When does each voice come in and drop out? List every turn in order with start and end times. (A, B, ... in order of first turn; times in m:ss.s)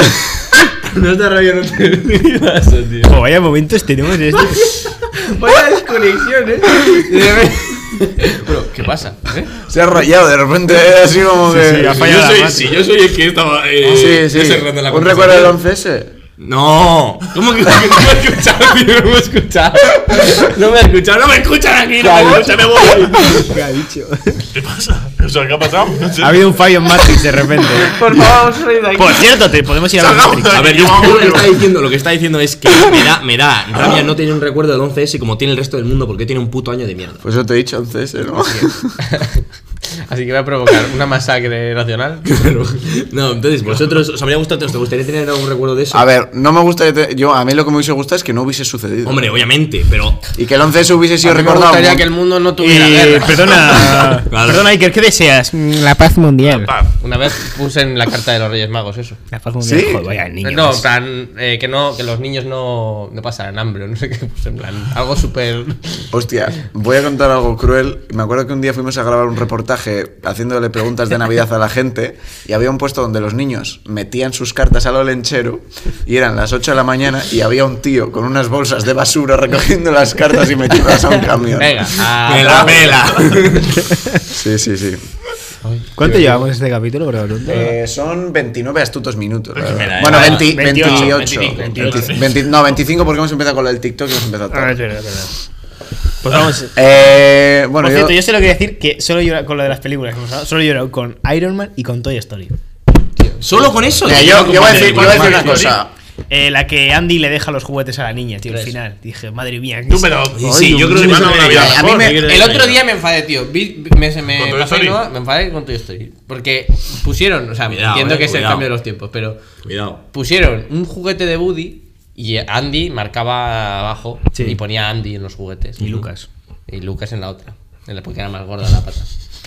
0:00.8-0:03.1 A
0:03.0-0:04.7 B
0:05.2-0:09.5 C
0:06.8-0:07.5 A
0:09.6-0:12.0 D
0:11.4-0:12.8 B
0:11.8-0:15.6 A
0:13.8-0:16.1 D
0:16.4-0:23.6 A
0:23.2-0:24.4 B
0:24.5-0:26.6 E
0:26.2-0:28.0 B
0:27.8-0:29.2 C
0:29.0-0:31.1 B
0:29.9-0:31.6 E
0:30.5-0:37.2 A
0:37.2-0:38.9 D
0:39.1-0:42.2 C
0:42.2-0:46.0 A
0:45.9-0:49.4 D
0:49.0-0:50.3 A
0:50.3-0:52.1 D
0:51.2-0:53.9 C
0:52.6-0:56.7 B
0:54.2-0:54.7 A
0:56.4-0:57.0 E
0:57.0-0:59.2 C
0:59.3-1:00.8 B
0:59.6-1:00.0 D
1:00.4-1:06.1 C
1:06.1-1:22.0 D
1:21.5-1:23.1 C
1:22.2-1:23.8 A
1:23.2-1:23.5 E
1:24.3-1:25.0 D
1:26.0-1:27.7 B
1:26.0-1:26.3 A
1:27.4-1:34.8 D
1:29.6-1:30.1 E
1:29.6-1:31.3 A
1:30.1-1:30.4 C
1:30.1-1:32.2 B
1:31.2-1:31.6 C
1:31.8-1:32.2 E
1:34.5-1:35.3 B
1:36.2-1:36.7 B
1:36.7-1:38.2 D
1:37.8-1:42.5 B
1:43.4-1:45.7 A
1:44.0-1:45.9 D
1:44.1-1:45.8 E
1:46.3-1:51.3 B
1:49.9-1:52.2 E
1:50.4-1:52.8 A
1:50.8-1:52.2 D
1:52.2-1:59.4 C
1:54.3-1:55.0 E
1:57.7-1:58.7 A
1:59.6-2:00.0 A
2:00.1-2:06.0 C
2:05.8-2:06.3 B
2:06.7-2:09.1 C